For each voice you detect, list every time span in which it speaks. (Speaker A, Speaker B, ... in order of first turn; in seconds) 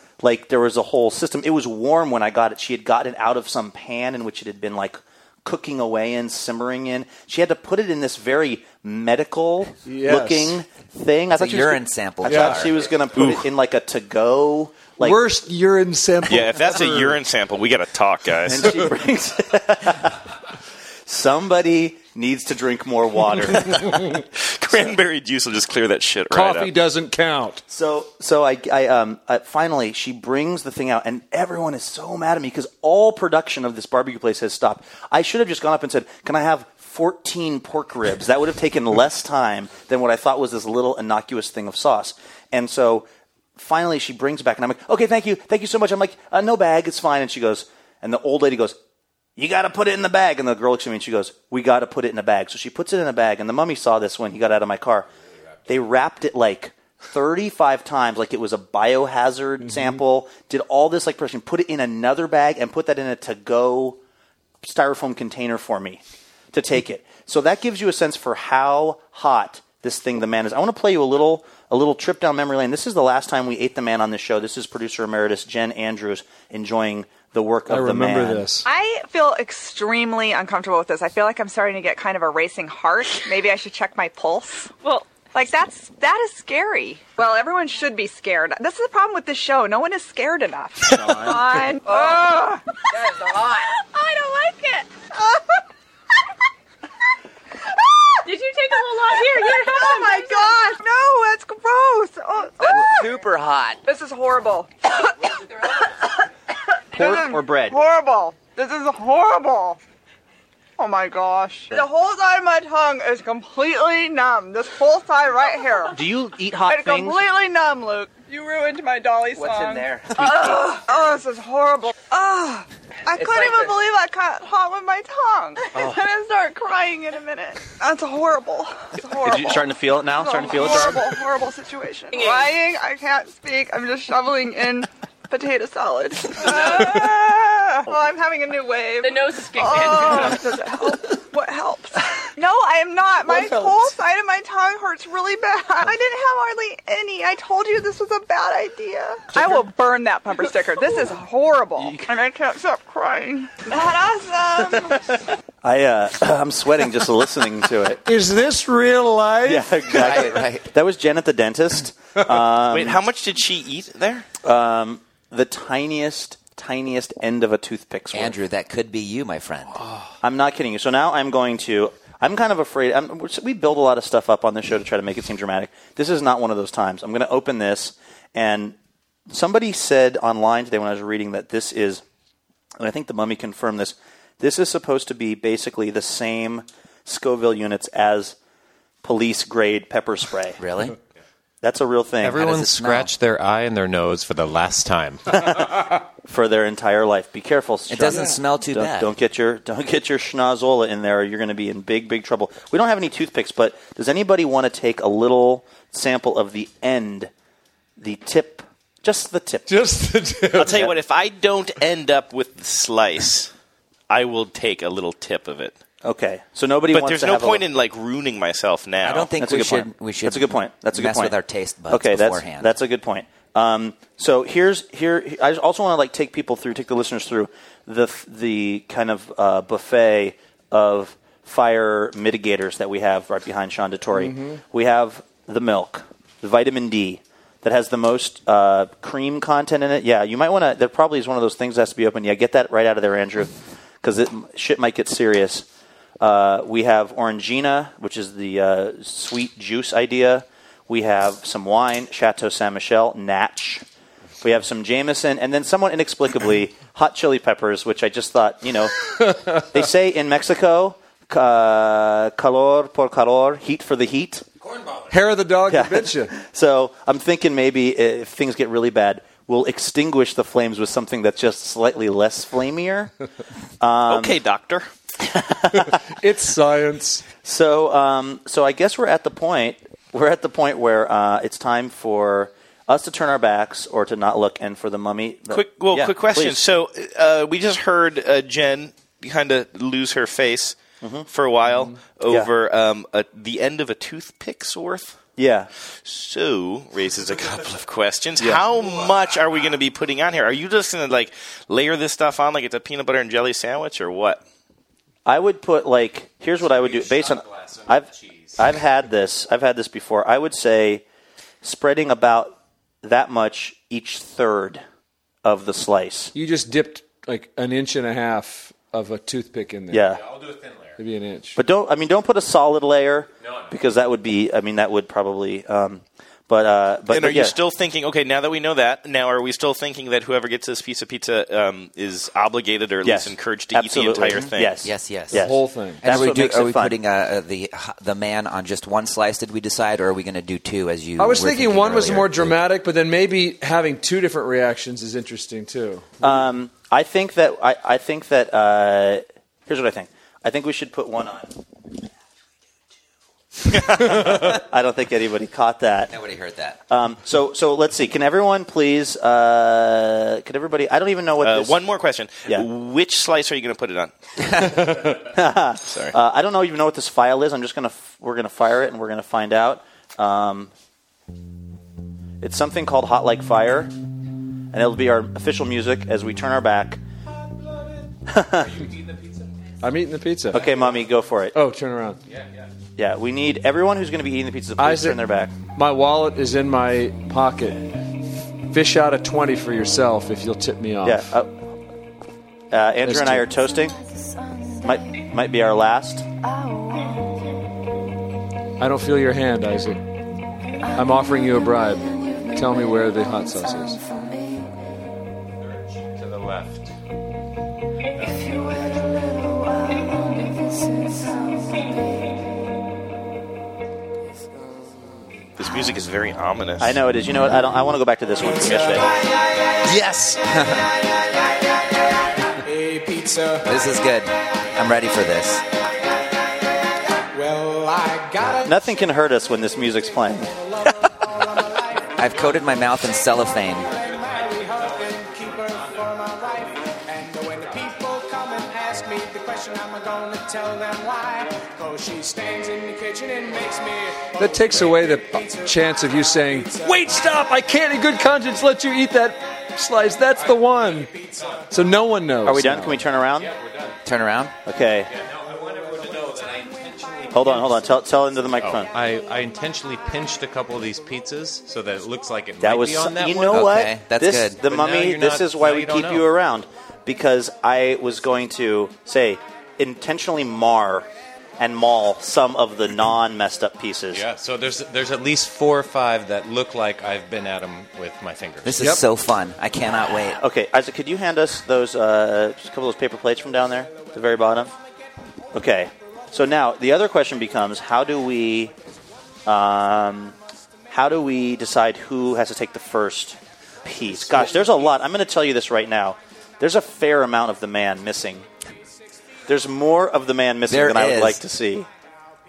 Speaker A: 0.2-15.2, 18.5-20.1, 21.1-24.0, 27.7-48.8, 49.4-55.1, 55.7-64.0, 64.6-66.0, 66.5-78.5, 106.9-107.8, 115.9-117.2, 125.7-126.0, 129.2-131.1, 155.6-158.0, 159.4-163.0, 164.4-168.4, 170.2-178.8, 179.3-182.0, 182.8-188.4, 189.0-190.6, 191.6-192.5, 195.3-207.3, 208.0-209.7, 210.6-210.9, 216.0-217.7, 219.4-221.4, 221.9-245.7, 246.2-253.8, 254.4-264.4, 265.7-273.1, 273.8-274.4, 275.2-276.0, 277.4-286.6, 291.0-291.3, 295.4-295.7, 305.2-311.0, 311.6-314.8, 315.4-316.3, 319.9-320.2, 321.6-327.6, 333.0-337.0, 346.2-351.5, 353.7-356.1, 356.9-361.8, 365.1-370.7, 372.4-373.9, 374.7-377.0, 378.3-378.7, 380.5-381.6, 383.0-385.5, 391.0-391.5, 392.7-393.9, 394.8-396.2, 416.8-419.1, 428.6-430.6, 452.4-453.5, 454.6-455.1, 457.3-458.9, 462.6-471.1, 471.6-474.2, 480.4-484.7, 485.5-488.7, 489.5-490.4, 490.9-498.5, 499.5-501.9
Speaker B: 9.8-10.6, 12.3-12.6, 15.0-17.2, 26.3-27.6, 77.7-78.7, 158.1-159.9, 209.7-210.8, 234.1-234.6, 265.1-266.3, 276.2-277.2, 316.3-320.1, 321.0-321.6, 335.3-336.0, 341.2-346.2, 379.8-380.6, 381.5-382.2, 384.8-385.2, 385.8-387.8, 388.7-391.2, 393.1-393.5, 398.8-400.0, 401.0-402.0, 402.6-404.0, 444.4-451.1, 451.7-453.0
Speaker C: 11.3-12.8, 103.3-103.8, 160.0-160.7, 168.1-169.8, 190.6-190.9, 192.4-193.1, 197.9-199.1, 219.0-222.8, 334.3-335.5, 336.0-342.6, 356.1-356.8, 419.9-420.8, 423.6-425.6, 432.2-433.9, 454.1-454.5, 463.5-464.6, 478.6-480.4, 500.7-501.4
Speaker D: 13.1-13.5, 16.3-18.9, 24.4-26.7, 162.6-164.3, 210.6-213.5, 214.1-215.8, 216.9-219.3, 274.1-274.9, 285.5-295.2, 296.0-304.4, 327.1-334.8, 361.4-364.1, 365.8-366.2, 415.6-417.0, 418.6-419.0
Speaker E: 78.7-94.1, 95.1-95.6, 99.1-103.3, 103.8-106.1, 106.9-109.8, 110.8-116.0, 116.6-155.0
Speaker F: 98.2-100.6, 139.1-140.4, 393.5-395.3, 396.4-397.6, 400.8-404.9, 408.2-412.8
Speaker G: 192.2-195.2, 264.6-265.4, 298.8-299.6, 306.6-308.8, 320.1-321.0, 323.4-323.8, 378.6-379.9, 380.5-381.1, 382.2-382.7, 405.6-406.9, 432.3-432.6, 433.9-436.8, 437.5-437.9, 450.4-450.7, 451.3-451.7, 453.3-454.0, 455.1-458.1, 458.6-463.7, 464.6-466.3, 474.1-478.9
Speaker H: 422.6-423.7, 427.3-428.8, 430.5-432.1, 433.8-447.2, 451.0-451.6, 455.4-457.4